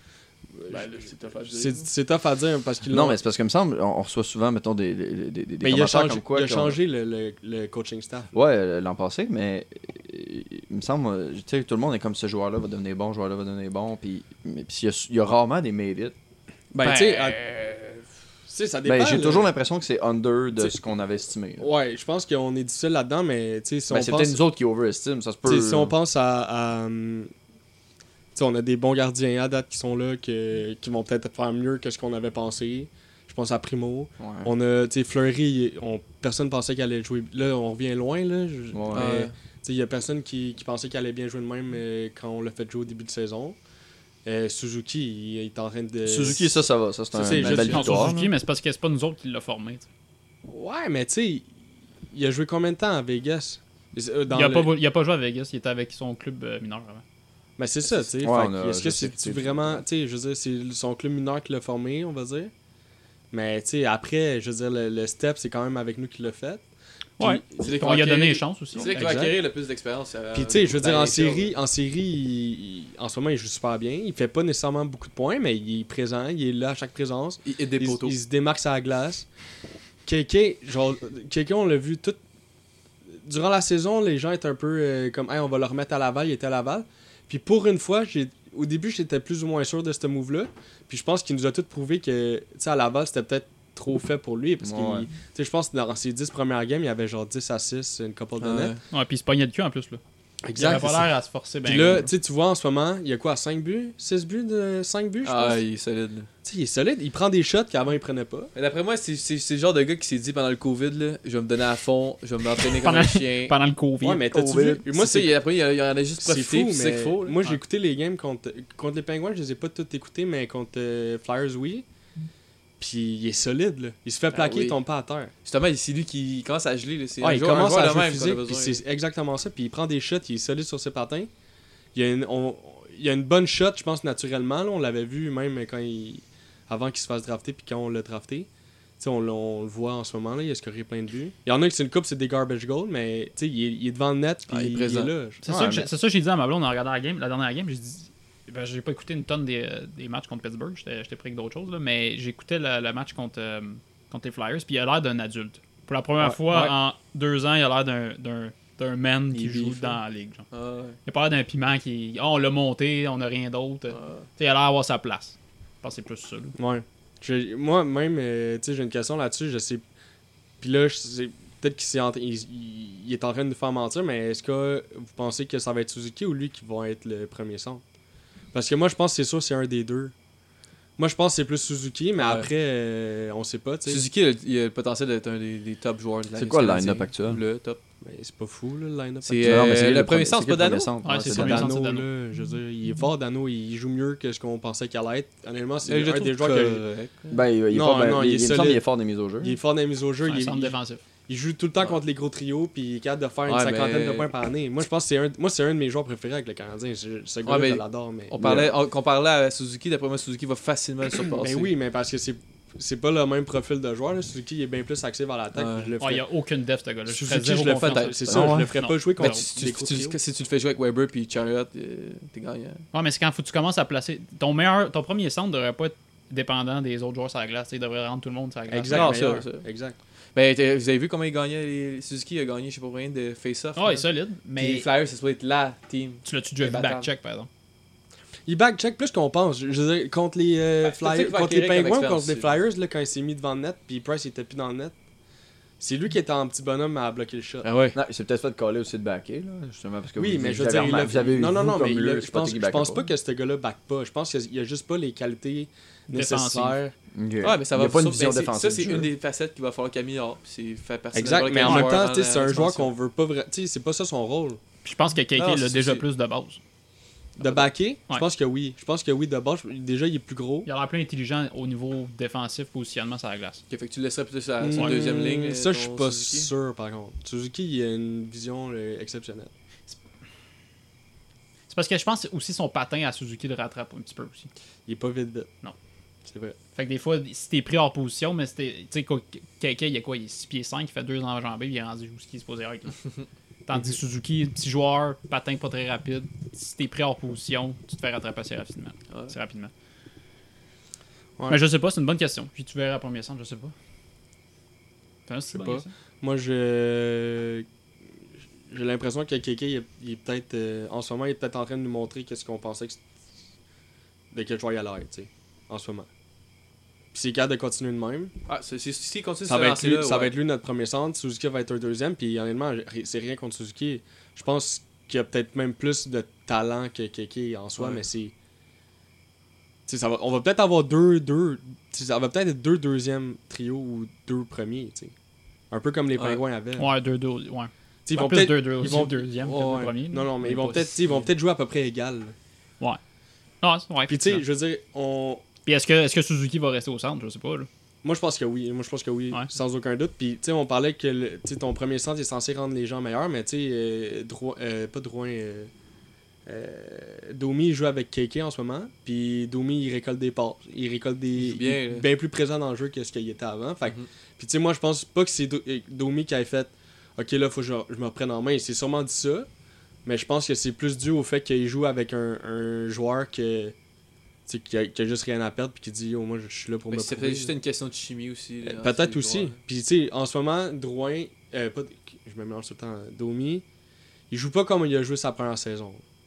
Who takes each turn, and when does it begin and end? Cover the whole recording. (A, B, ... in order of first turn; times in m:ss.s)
0:00.6-0:03.2 A
0:00.7-0:01.9 B
0:02.9-0:06.8 C
0:05.6-0:08.3 A
0:08.3-0:16.1 C
0:16.7-0:18.0 A
0:16.8-0:17.4 B
0:18.5-0:19.5 A
0:18.8-0:21.7 C
0:21.6-0:24.4 A
0:23.9-0:25.9 C
0:25.4-0:27.3 A
0:28.3-0:43.6 A
0:34.2-0:34.5 C
0:38.7-0:39.2 C
0:38.9-0:39.3 B
0:44.2-0:46.6 A
0:46.0-0:48.3 C
0:47.1-0:48.0 A
0:47.3-0:47.8 B
0:47.4-0:49.8 D
0:50.5-0:51.5 A
0:52.1-0:54.7 A
0:54.3-0:57.0 D
0:57.6-1:02.5 A
0:57.9-0:59.8 C
1:03.3-1:06.6 A
1:07.2-1:09.2 D
1:07.2-1:08.0 A
1:07.6-1:11.5 B
1:08.8-1:09.4 A
1:10.3-1:19.2 A
1:17.4-1:18.2 B
1:20.0-1:22.2 A
1:23.2-1:38.7 A
1:34.6-1:35.1 C
1:38.4-1:38.8 B
1:38.9-1:40.0 D
1:40.4-1:41.1 A
1:40.5-1:42.1 D
1:41.6-1:45.6 A
1:45.2-1:46.3 B
1:46.4-1:48.5 A
1:48.5-1:53.5 B
1:52.8-1:54.3 D
1:54.0-1:55.3 A
1:54.3-1:54.9 C
1:54.9-1:57.4 B
1:56.2-2:01.8 A
2:02.8-2:05.3 A
2:04.3-2:04.8 B
2:05.4-2:08.8 B
2:07.2-2:11.3 A
2:11.9-2:18.5 A
2:19.0-2:25.8 A
2:24.5-2:25.1 B
2:25.4-2:40.4 D
2:36.2-2:36.7 A
2:39.4-2:40.0 A
2:40.5-2:41.0 B
2:41.0-2:46.6 D
2:43.9-2:44.2 B
2:46.6-2:49.8 A
2:50.6-2:57.8 A
2:58.5-3:00.1 A
3:01.0-3:04.0 A
3:02.2-3:02.5 B
3:03.8-3:07.8 B
3:06.4-3:07.4 C
3:08.0-3:09.8 A
3:09.2-3:10.9 B
3:09.4-3:11.7 C
3:11.0-3:12.1 D
3:11.3-3:16.8 A
3:15.8-3:17.3 B
3:17.3-3:19.6 C
3:17.7-3:18.8 A
3:19.4-3:20.8 A
3:20.2-3:21.0 D
3:21.3-3:28.3 A
3:23.5-3:24.3 B
3:27.4-3:31.7 B
3:28.4-3:28.7 C
3:31.1-3:36.2 A
3:35.5-3:35.9 B
3:36.0-3:39.4 D
3:37.1-3:40.2 A
3:37.8-3:38.4 B
3:38.3-3:39.0 C
3:39.2-3:42.8 B
3:42.9-3:49.2 D
3:48.7-3:50.0 A
3:48.9-3:49.6 B
3:50.3-3:57.1 B
3:53.8-3:54.9 D
3:56.2-3:57.5 D
3:58.5-4:04.9 A
4:00.8-4:02.5 B
4:05.8-4:07.7 A
4:07.6-4:07.9 B
4:07.9-4:13.1 C
4:10.2-4:16.9 A
4:16.1-4:16.8 D
4:17.1-4:19.1 C
4:17.4-4:22.9 B
4:21.1-4:24.6 A
4:21.6-4:22.0 D
4:24.8-4:26.6 D
4:25.4-4:26.0 B
4:27.4-4:27.7 B
4:27.4-4:30.7 A
4:30.6-4:33.6 D
4:33.7-4:36.5 B
4:34.6-4:39.5 A
4:41.7-4:44.5 D
4:44.9-4:45.5 A
4:46.2-4:46.6 A
4:46.7-4:53.0 D
4:53.7-4:59.7 D
5:01.5-5:03.7 D
5:05.3-5:05.9 D
5:05.5-5:07.6 A
5:08.7-5:13.0 A
5:14.3-5:16.1 A
5:17.1-5:18.3 A
5:18.5-5:20.4 B
5:19.4-5:28.3 A
5:29.9-5:35.1 A
5:35.7-5:36.9 A
5:36.8-5:40.9 D
5:38.0-5:42.3 A
5:43.6-5:44.4 D
5:44.1-5:45.4 A
5:45.6-5:47.7 D
5:48.0-5:55.7 A
5:56.4-6:09.5 A
6:01.4-6:02.0 B
6:10.0-6:13.7 A
6:14.5-6:17.5 A
6:16.9-6:19.6 B
6:18.6-6:23.6 A
6:24.3-6:26.0 A